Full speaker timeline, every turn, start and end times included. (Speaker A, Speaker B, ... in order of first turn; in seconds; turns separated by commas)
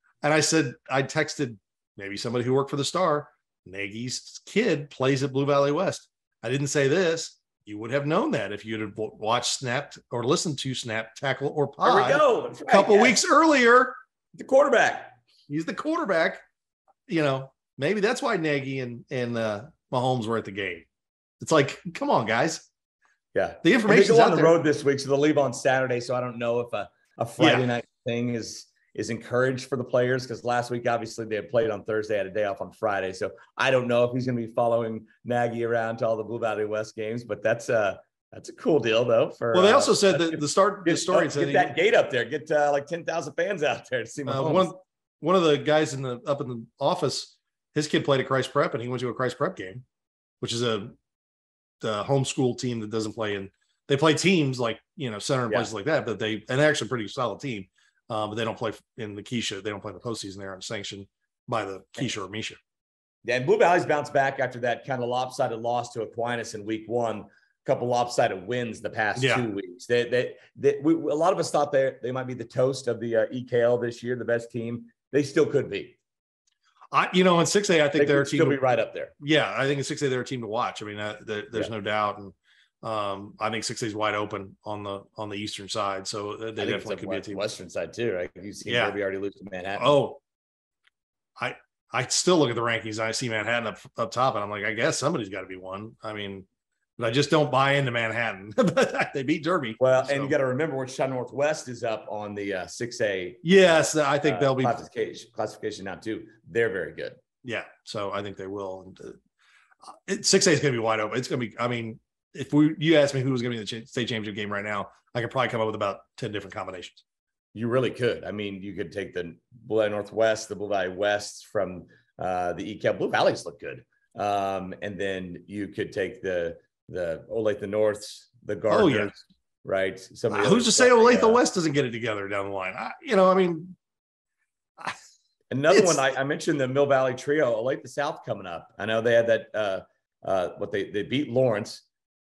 Speaker A: 0.2-14.0, Speaker B: 11.8-13.2, Speaker B: 14.3-15.2, Speaker A: 15.5-16.4, Speaker A: 17.1-20.9, Speaker A: 21.4-22.7, Speaker B: 23.3-44.7, Speaker A: 23.6-24.6, Speaker A: 27.4-27.7, Speaker A: 39.5-41.7, Speaker A: 44.3-49.8, Speaker A: 50.4-50.9, Speaker A: 51.8-62.6, Speaker B: 63.2-76.0, Speaker A: 69.2-69.5, Speaker A: 76.9-78.6, Speaker B: 78.0-79.1, Speaker A: 79.2-87.4, Speaker B: 86.6-90.0, Speaker A: 88.7-88.9, Speaker A: 89.8-90.2, Speaker A: 91.4-96.5, Speaker A: 97.0-100.3, Speaker B: 99.8-107.2, Speaker A: 103.4-104.8, Speaker A: 107.4-109.2, Speaker A: 110.0-117.0, Speaker B: 117.5-131.4, Speaker A: 128.7-129.1, Speaker A: 130.3-133.8, Speaker B: 135.5-141.8, Speaker A: 135.7-136.0